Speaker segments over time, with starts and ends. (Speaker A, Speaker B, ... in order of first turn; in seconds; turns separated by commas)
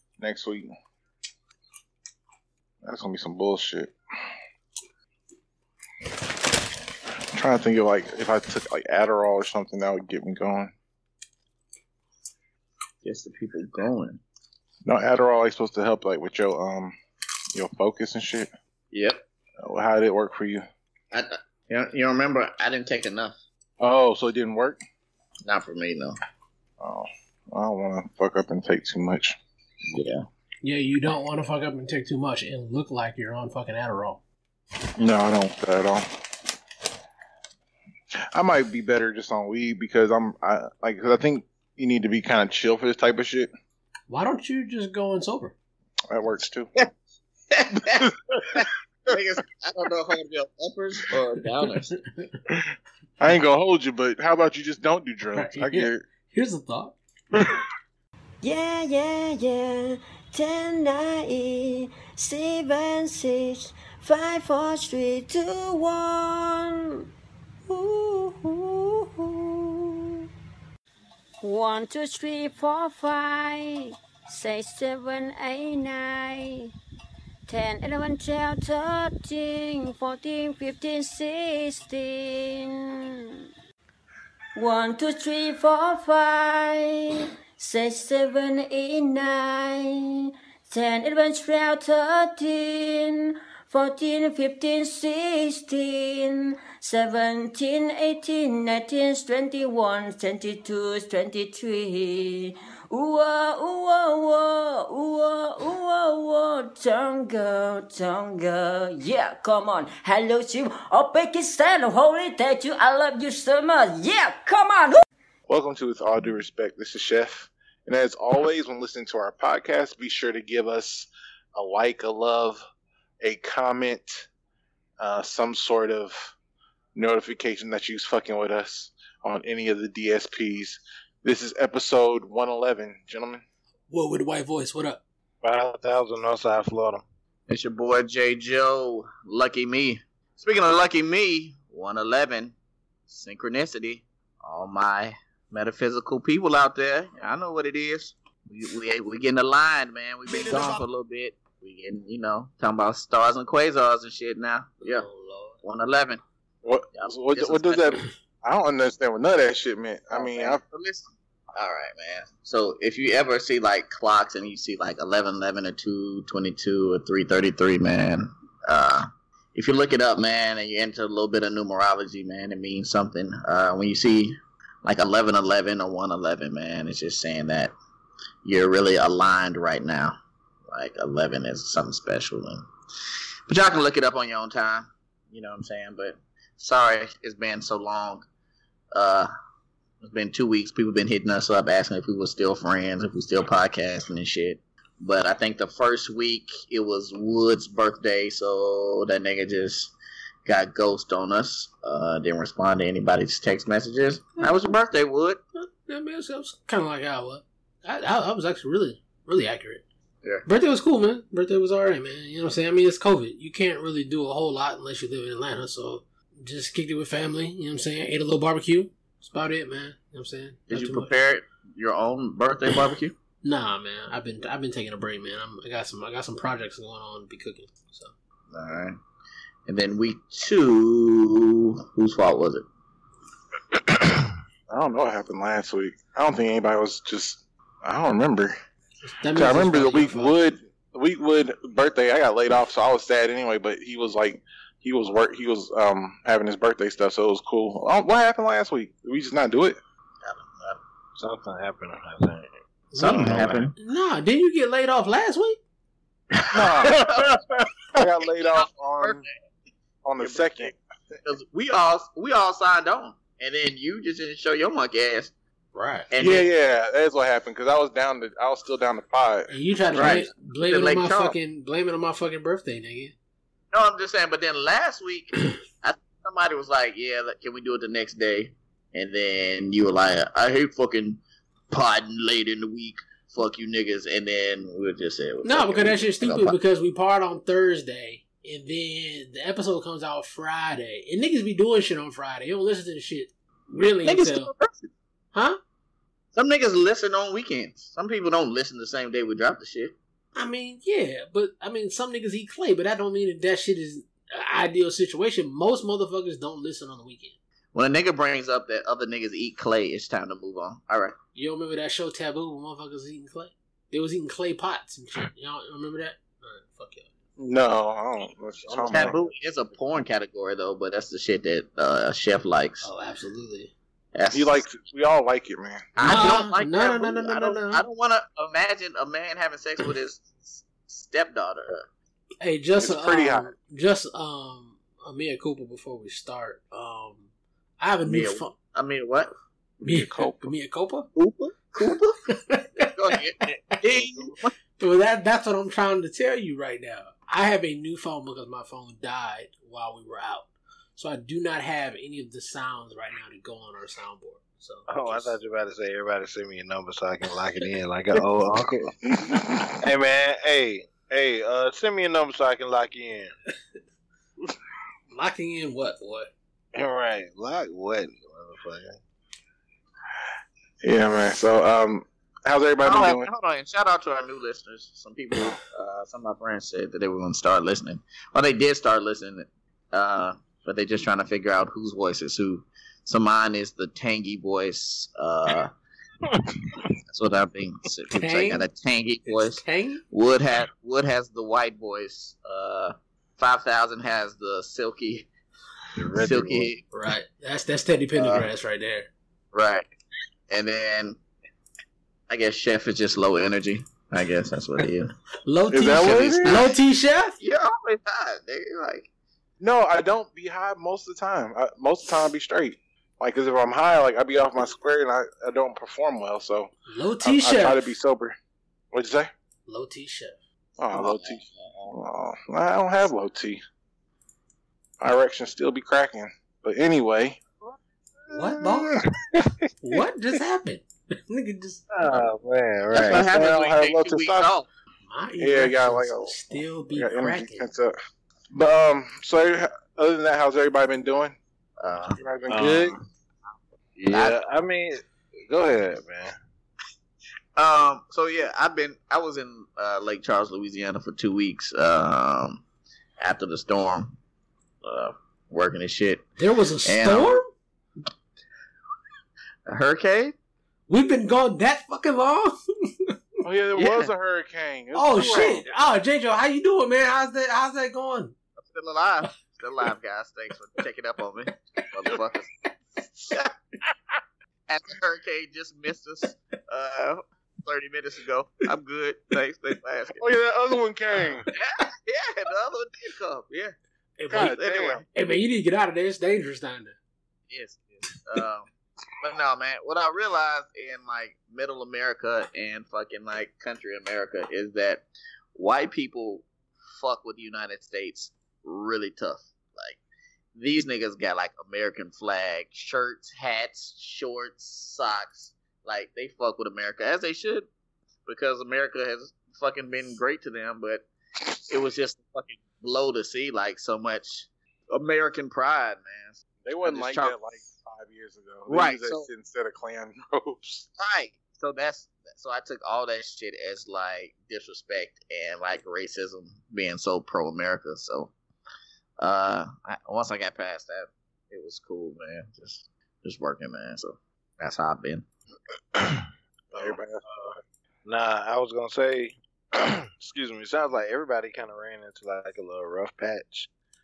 Speaker A: 0.2-0.7, Speaker A: 2.8-3.9, Speaker A: 7.3-10.7, Speaker B: 13.0-14.2, Speaker A: 14.8-16.9, Speaker A: 17.5-18.5, Speaker B: 18.9-19.2, Speaker A: 19.6-20.6, Speaker B: 21.1-23.4, Speaker A: 23.8-24.8, Speaker B: 25.4-26.2, Speaker A: 26.8-29.4, Speaker B: 29.9-30.2, Speaker C: 30.6-34.2, Speaker A: 35.0-36.1, Speaker A: 38.3-43.5, Speaker C: 44.1-45.5, Speaker A: 46.1-46.7, Speaker B: 47.5-52.0, Speaker A: 47.8-48.6, Speaker A: 53.2-56.0, Speaker C: 55.4-57.0, Speaker A: 57.3-57.6, Speaker D: 58.4-67.0, Speaker D: 67.7-70.2, Speaker D: 71.4-76.7, Speaker D: 77.5-83.3, Speaker D: 84.5-115.0, Speaker A: 115.5-122.6, Speaker A: 123.2-124.3, Speaker A: 125.0-126.3, Speaker A: 126.9-133.4, Speaker C: 133.9-135.0, Speaker E: 135.4-137.0, Speaker B: 137.5-142.5, Speaker B: 143.1-155.0, Speaker C: 150.5-150.7, Speaker C: 155.1-155.5, Speaker B: 155.6-156.2, Speaker A: 156.6-160.6, Speaker B: 156.9-158.1, Speaker B: 160.1-177.7, Speaker B: 178.4-180.2, Speaker B: 180.7-182.6, Speaker B: 183.5-188.2, Speaker B: 188.9-189.3, Speaker B: 190.0-199.9, Speaker B: 200.4-205.4, Speaker C: 205.8-209.8, Speaker C: 210.4-221.1, Speaker B: 220.7-223.1, Speaker C: 223.4-228.1, Speaker B: 228.5-229.0, Speaker B: 229.7-232.6, Speaker A: 234.7-238.6, Speaker C: 239.0-240.3, Speaker A: 239.3-249.8, Speaker B: 250.2-250.8, Speaker E: 251.2-253.7, Speaker C: 252.9-255.6, Speaker B: 252.9-253.7, Speaker B: 256.3-257.4, Speaker A: 256.5-259.2, Speaker B: 258.4-259.3, Speaker A: 260.0-260.8, Speaker B: 260.2-260.5, Speaker B: 261.2-265.3, Speaker C: 265.7-266.1, Speaker B: 266.1-266.5, Speaker A: 266.2-270.2, Speaker C: 269.5-273.1, Speaker B: 269.9-271.3, Speaker B: 273.7-286.5, Speaker C: 285.4-294.5, Speaker B: 293.7-294.9, Speaker C: 295.3-295.6, Speaker B: 296.3-299.9, Speaker C: 300.3-307.3, Speaker B: 307.7-311.1, Speaker C: 311.3-317.1, Speaker A: 317.4-319.2, Speaker E: 318.7-319.3, Speaker B: 318.8-322.9, Speaker C: 322.8-323.7, Speaker B: 324.1-324.6, Speaker A: 324.3-326.4, Speaker B: 325.9-331.8, Speaker C: 326.0-327.8, Speaker C: 332.4-337.3, Speaker A: 332.8-333.5, Speaker C: 337.8-338.5, Speaker B: 338.0-339.3, Speaker A: 339.8-340.5, Speaker C: 339.8-341.1, Speaker B: 341.1-342.2, Speaker C: 342.3-355.4, Speaker B: 342.9-344.5, Speaker E: 354.9-359.0, Speaker A: 359.1-359.8, Speaker E: 359.8-363.3, Speaker C: 365.1-366.3, Speaker E: 366.7-369.0, Speaker A: 370.8-373.3, Speaker B: 372.8-385.7, Speaker B: 387.1-395.3, Speaker C: 388.1-388.7, Speaker C: 389.2-390.0, Speaker E: 395.9-396.7, Speaker B: 396.2-396.8, Speaker C: 396.9-399.1, Speaker B: 398.1-398.5, Speaker B: 399.5-399.9, Speaker B: 400.5-401.2, Speaker B: 402.3-405.1, Speaker C: 405.4-407.4, Speaker A: 405.7-406.7, Speaker B: 407.4-409.1, Speaker A: 409.6-418.4, Speaker C: 416.9-417.9, Speaker A: 418.9-419.3, Speaker C: 419.7-420.4, Speaker A: 420.8-423.6, Speaker B: 420.9-421.9, Speaker A: 425.0-427.4, Speaker C: 428.3-429.0, Speaker E: 428.3-430.0, Speaker C: 429.8-431.8, Speaker E: 431.9-433.3, Speaker B: 432.9-434.7, Speaker A: 432.9-434.5, Speaker C: 435.1-437.7, Speaker A: 435.4-436.3, Speaker A: 436.9-437.9, Speaker A: 438.5-441.4, Speaker B: 441.8-442.2, Speaker A: 442.2-443.0, Speaker E: 442.5-443.0, Speaker E: 444.0-446.3, Speaker B: 444.1-444.4, Speaker B: 447.6-452.6, Speaker B: 453.2-454.2, Speaker B: 454.8-456.3, Speaker C: 456.4-457.5, Speaker B: 456.8-457.4, Speaker B: 459.7-460.3, Speaker C: 460.9-463.2, Speaker A: 463.4-465.6, Speaker B: 463.8-464.1, Speaker C: 464.9-468.3, Speaker B: 468.6-472.5, Speaker A: 473.1-473.4, Speaker B: 474.7-480.2, Speaker A: 480.2-481.5, Speaker B: 481.5-483.8, Speaker C: 484.2-486.9, Speaker A: 484.3-485.0, Speaker B: 484.3-485.0, Speaker B: 487.5-488.7, Speaker B: 489.2-500.0, Speaker B: 500.5-507.7, Speaker B: 508.2-511.1, Speaker B: 511.7-517.4, Speaker A: 516.6-520.9, Speaker B: 518.7-519.3, Speaker B: 521.0-528.3, Speaker B: 529.2-535.2, Speaker A: 536.7-537.2, Speaker E: 536.7-543.7